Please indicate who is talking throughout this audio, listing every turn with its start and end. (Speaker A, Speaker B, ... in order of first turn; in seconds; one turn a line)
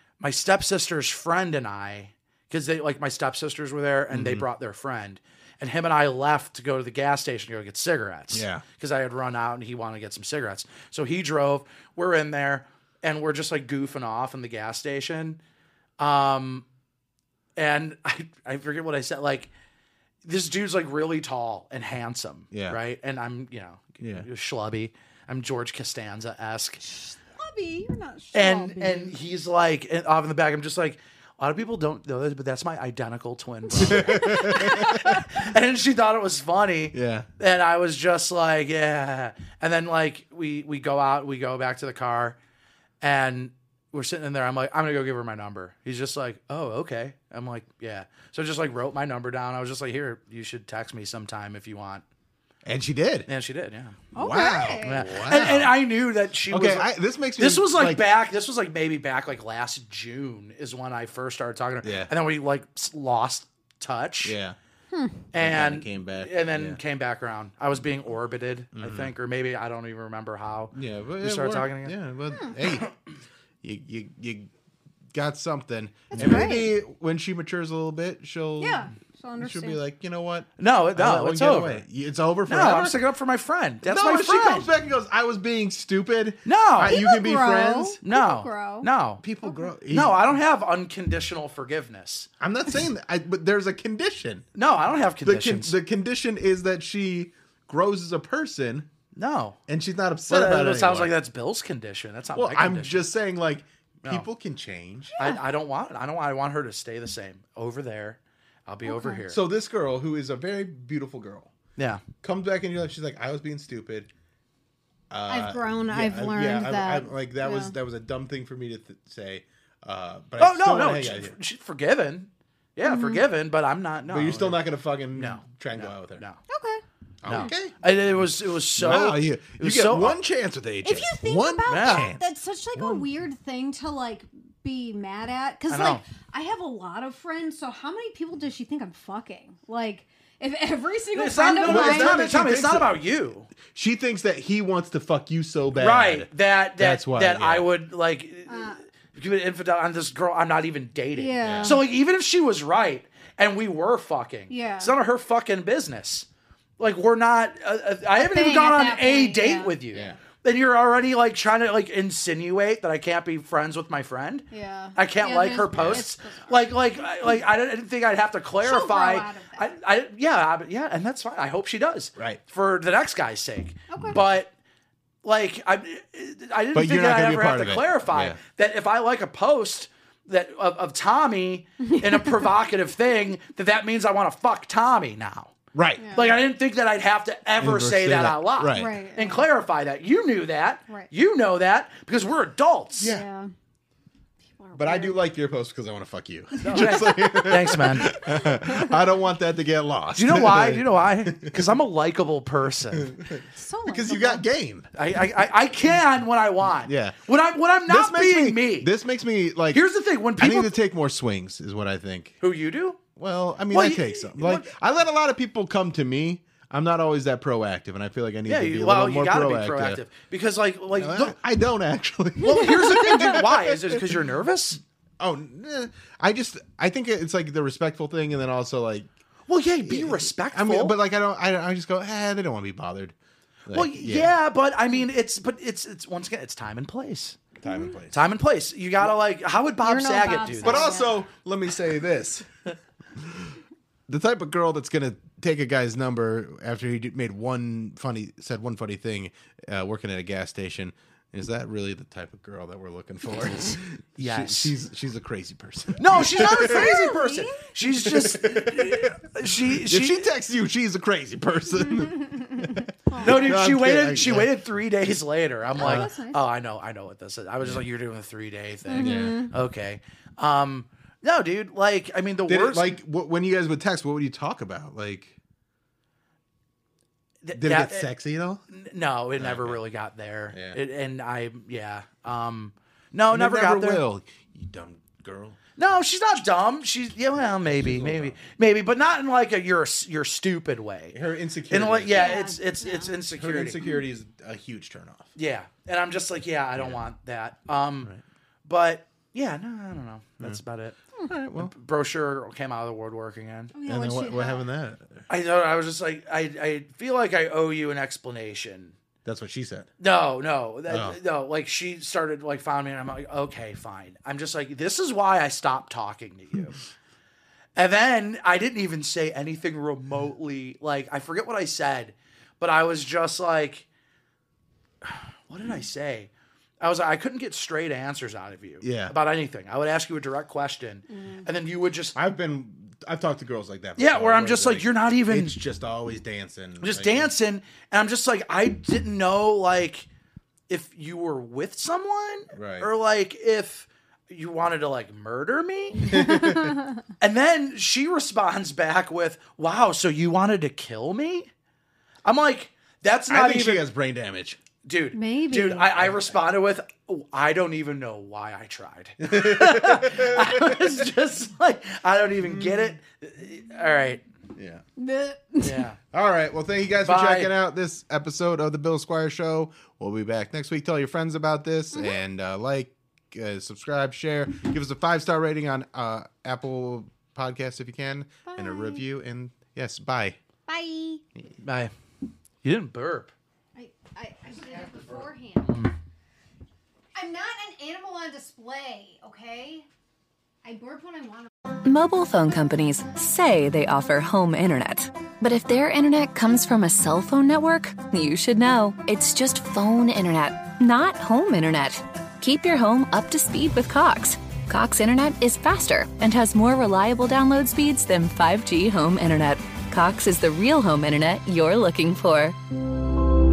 Speaker A: 0.2-15.4
Speaker B: 4.1-4.5
Speaker B: 8.3-8.6
Speaker A: 16.0-16.6
Speaker A: 17.6-19.5
Speaker A: 20.2-26.8
Speaker B: 22.5-22.8
Speaker B: 24.0-24.3
Speaker C: 26.8-29.2
Speaker A: 28.3-42.4
Speaker B: 33.8-35.2
Speaker B: 36.9-37.3
Speaker A: 43.0-52.0
Speaker B: 52.6-53.3
Speaker A: 53.3-54.0
Speaker C: 54.1-55.0
Speaker B: 54.2-55.7
Speaker A: 54.8-64.4
Speaker B: 56.5-58.1
Speaker B: 61.8-62.1
Speaker B: 64.2-64.6
Speaker C: 64.9-65.2
Speaker A: 65.3-72.0
Speaker B: 65.4-66.8
Speaker B: 68.7-69.1
Speaker B: 70.7-72.9
Speaker B: 73.6-74.5
Speaker B: 75.1-83.0
Speaker C: 76.1-76.7
Speaker A: 76.2-76.5
Speaker C: 78.6-79.8
Speaker A: 80.6-81.8
Speaker A: 82.5-84.7
Speaker B: 83.8-88.0
Speaker A: 86.5-87.0
Speaker C: 86.9-88.9
Speaker A: 88.0-89.2
Speaker B: 89.2-90.4
Speaker C: 89.4-89.7
Speaker A: 89.9-92.3
Speaker B: 92.4-94.5
Speaker A: 94.5-95.8
Speaker B: 95.2-98.9
Speaker A: 99.2-99.6
Speaker B: 99.7-101.2
Speaker A: 100.3-103.1
Speaker B: 102.3-105.2
Speaker A: 105.2-109.4
Speaker C: 108.8-109.2
Speaker B: 109.3-111.5
Speaker A: 111.8-112.0
Speaker B: 112.2-114.1
Speaker B: 115.1-121.3
Speaker C: 115.3-117.7
Speaker A: 120.4-124.6
Speaker C: 122.8-123.2
Speaker B: 124.1-126.2
Speaker A: 125.1-126.4
Speaker C: 126.5-126.8
Speaker B: 127.2-127.8
Speaker A: 127.3-130.2
Speaker B: 128.8-133.1
Speaker C: 130.8-142.3
Speaker A: 131.7-132.1
Speaker A: 135.7-136.0
Speaker A: 141.1-143.5
Speaker B: 141.6-143.0
Speaker B: 143.6-147.7
Speaker A: 145.8-156.3
Speaker C: 148.5-148.8
Speaker C: 151.1-151.8
Speaker B: 151.4-151.8
Speaker C: 154.5-154.9
Speaker A: 156.8-174.5
Speaker C: 158.2-160.1
Speaker B: 159.9-160.2
Speaker C: 164.5-167.4
Speaker B: 165.7-166.1
Speaker C: 168.6-169.7
Speaker B: 172.2-172.4
Speaker C: 173.9-174.2
Speaker B: 173.9-174.2
Speaker A: 175.2-185.5
Speaker B: 176.7-178.4
Speaker C: 181.9-182.5
Speaker B: 185.7-186.1
Speaker C: 186.0-186.4
Speaker A: 186.1-193.1
Speaker B: 187.6-189.0
Speaker C: 188.7-189.5
Speaker B: 193.0-193.3
Speaker C: 193.0-193.5
Speaker C: 194.6-195.2
Speaker B: 194.7-201.8
Speaker A: 196.7-198.1
Speaker C: 196.8-197.5
Speaker C: 198.6-198.9
Speaker A: 200.2-203.2
Speaker B: 203.0-204.9
Speaker C: 203.6-204.4
Speaker A: 204.9-208.9
Speaker B: 206.8-207.3
Speaker B: 207.9-209.8
Speaker A: 209.7-210.8
Speaker B: 210.4-212.4
Speaker A: 212.4-213.0
Speaker B: 213.2-220.0
Speaker A: 213.7-214.7
Speaker A: 218.5-221.4
Speaker B: 220.9-224.0
Speaker A: 222.4-224.8
Speaker B: 225.2-229.1
Speaker A: 229.5-231.0
Speaker B: 229.8-233.2
Speaker B: 233.7-234.3
Speaker A: 233.7-237.4
Speaker B: 237.6-238.2
Speaker C: 237.6-237.9
Speaker A: 238.1-240.9
Speaker C: 239.8-241.2
Speaker B: 240.6-242.5
Speaker B: 243.2-243.6
Speaker B: 244.1-256.9
Speaker A: 254.2-254.8
Speaker A: 256.0-260.3
Speaker C: 256.4-257.6
Speaker B: 258.0-264.6
Speaker C: 263.1-263.5
Speaker A: 263.2-272.9
Speaker C: 265.7-266.5
Speaker B: 265.8-266.1
Speaker C: 268.9-269.5
Speaker B: 269.0-269.4
Speaker B: 272.5-275.4
Speaker A: 277.4-278.1
Speaker B: 277.5-278.6
Speaker A: 278.7-284.0
Speaker B: 279.4-279.8
Speaker B: 280.5-280.8
Speaker B: 283.3-285.6
Speaker A: 285.8-291.2
Speaker B: 287.4-288.4
Speaker B: 291.1-292.5
Speaker A: 291.7-293.8
Speaker C: 292.1-293.1
Speaker B: 293.4-295.3
Speaker A: 295.4-298.1
Speaker B: 296.8-297.0
Speaker A: 298.6-301.0
Speaker B: 301.2-301.7
Speaker A: 301.6-303.7
Speaker C: 303.7-304.7
Speaker B: 303.9-305.2
Speaker A: 305.3-308.9
Speaker B: 309.2-309.9
Speaker A: 310.0-316.8
Speaker B: 310.9-311.2
Speaker A: 317.8-323.9
Speaker A: 325.1-332.2
Speaker B: 328.8-329.1
Speaker C: 331.1-331.5
Speaker B: 332.1-337.3
Speaker A: 334.0-335.6
Speaker A: 336.8-340.1
Speaker A: 340.7-346.5
Speaker B: 342.5-342.9
Speaker B: 346.1-346.8
Speaker A: 347.2-351.5
Speaker A: 352.2-353.9
Speaker B: 353.3-354.6
Speaker A: 354.9-364.2
Speaker C: 355.1-356.0
Speaker B: 356.0-356.4
Speaker B: 359.2-361.0
Speaker B: 362.4-363.0
Speaker B: 364.6-364.8
Speaker C: 365.0-365.9
Speaker A: 365.6-366.0
Speaker B: 366.1-380.4
Speaker A: 367.0-367.5
Speaker C: 371.9-372.2
Speaker C: 378.5-379.1
Speaker C: 380.7-381.2
Speaker A: 381.6-381.9
Speaker A: 382.6-383.3
Speaker C: 383.8-385.9
Speaker B: 384.7-385.0
Speaker C: 387.1-389.9
Speaker C: 390.6-391.5
Speaker D: 391.8-412.6